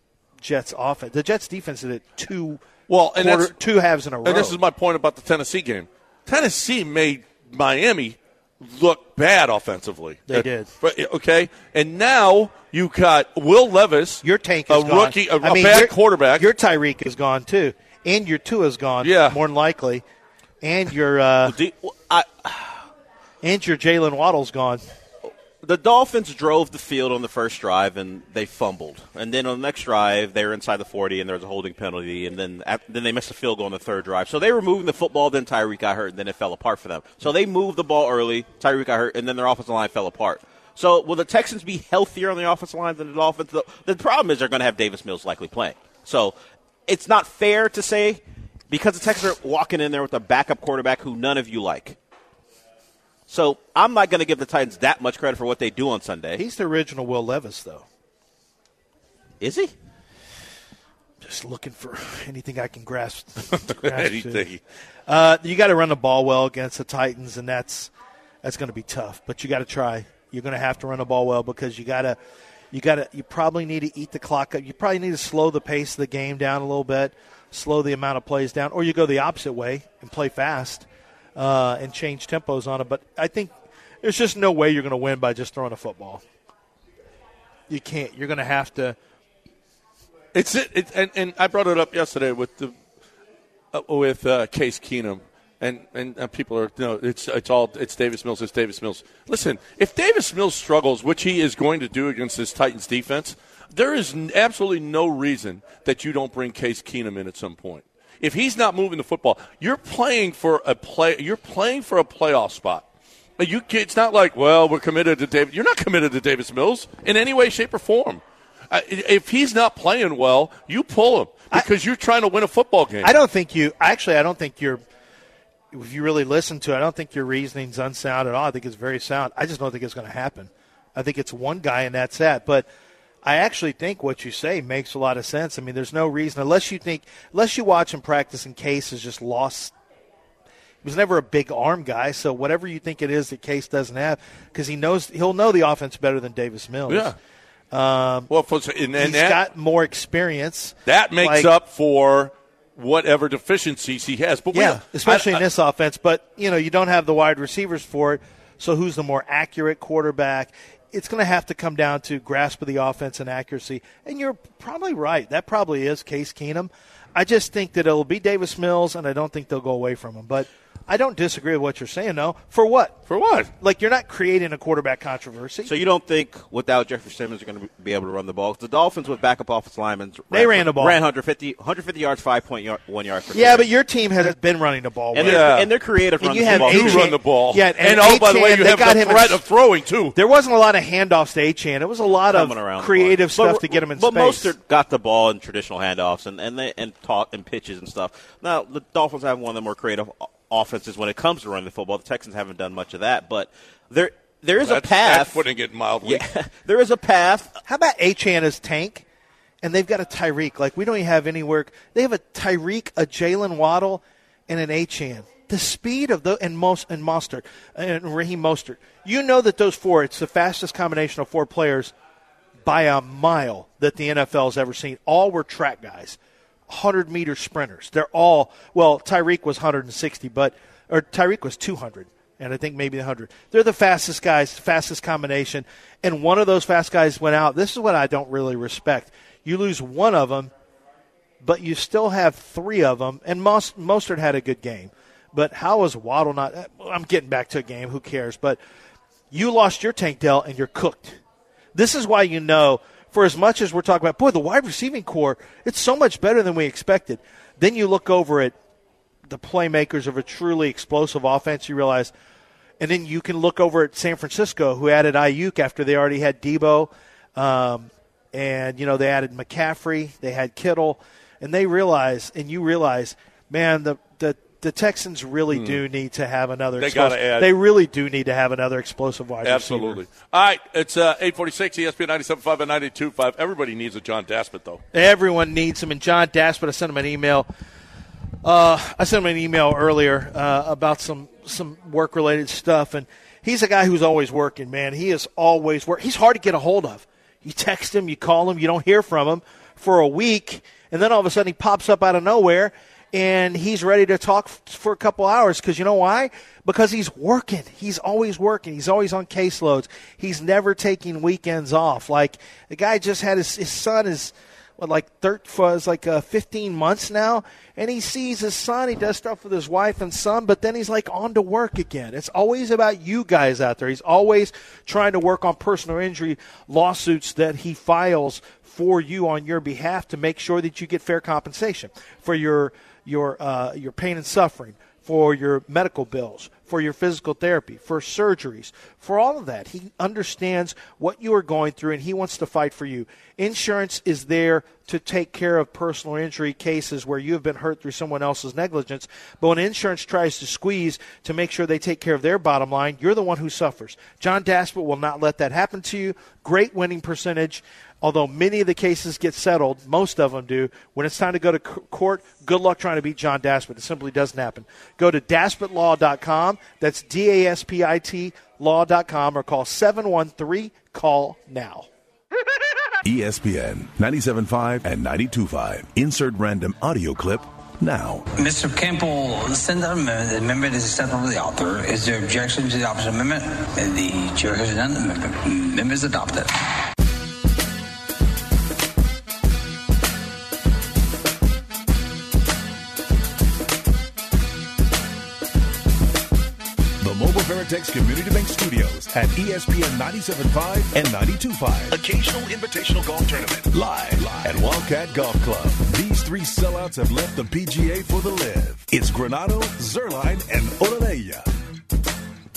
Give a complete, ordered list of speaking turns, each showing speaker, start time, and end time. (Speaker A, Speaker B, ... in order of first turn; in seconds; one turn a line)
Speaker A: 0.4-2.6
Speaker B: 2.9-3.5
Speaker A: 3.1-4.6
Speaker B: 4.2-16.5
Speaker A: 10.3-10.7
Speaker A: 14.2-20.0
Speaker B: 19.0-19.4
Speaker A: 20.6-21.6
Speaker C: 21.4-22.8
Speaker A: 23.4-24.8
Speaker C: 25.6-46.4
Speaker C: 46.9-52.0
Speaker C: 53.3-56.4
Speaker A: 56.4-57.8
Speaker C: 59.4-59.7
Speaker A: 61.2-64.5
Speaker B: 63.6-64.6
Speaker A: 65.1-67.9
Speaker A: 68.4-72.2
Speaker A: 72.7-86.2
Speaker A: 87.7-89.0
Speaker B: 90.3-92.7
Speaker B: 93.7-112.8
Speaker B: 113.4-123.1
Speaker A: 123.0-124.8
Speaker A: 125.7-132.7
Speaker A: 133.2-139.7
Speaker A: 140.8-147.1
Speaker B: 146.9-147.2
Speaker A: 147.7-148.3
Speaker B: 148.3-149.4
Speaker A: 149.0-151.5
Speaker B: 150.8-155.4
Speaker A: 154.5-173.0
Speaker B: 173.1-173.5
Speaker A: 173.6-175.7
Speaker C: 175.6-183.7
Speaker A: 180.3-181.0
Speaker A: 183.3-185.5
Speaker C: 185.1-187.1
Speaker B: 185.2-185.7
Speaker A: 186.2-189.4
Speaker B: 186.4-190.1
Speaker A: 190.1-194.5
Speaker C: 192.3-205.4
Speaker B: 204.6-206.2
Speaker C: 206.0-207.6
Speaker A: 207.7-209.0
Speaker A: 209.6-221.9
Speaker A: 222.6-226.2
Speaker A: 226.7-240.5
Speaker A: 241.4-248.6
Speaker A: 249.3-251.2
Speaker A: 251.7-258.5
Speaker A: 259.3-262.1
Speaker A: 262.8-280.0
Speaker B: 275.5-275.8
Speaker B: 276.8-277.5
Speaker B: 279.4-284.8
Speaker A: 284.9-287.5
Speaker A: 288.4-371.9
Speaker D: 373.0-378.3
Speaker E: 378.3-386.6
Speaker D: 397.0-411.5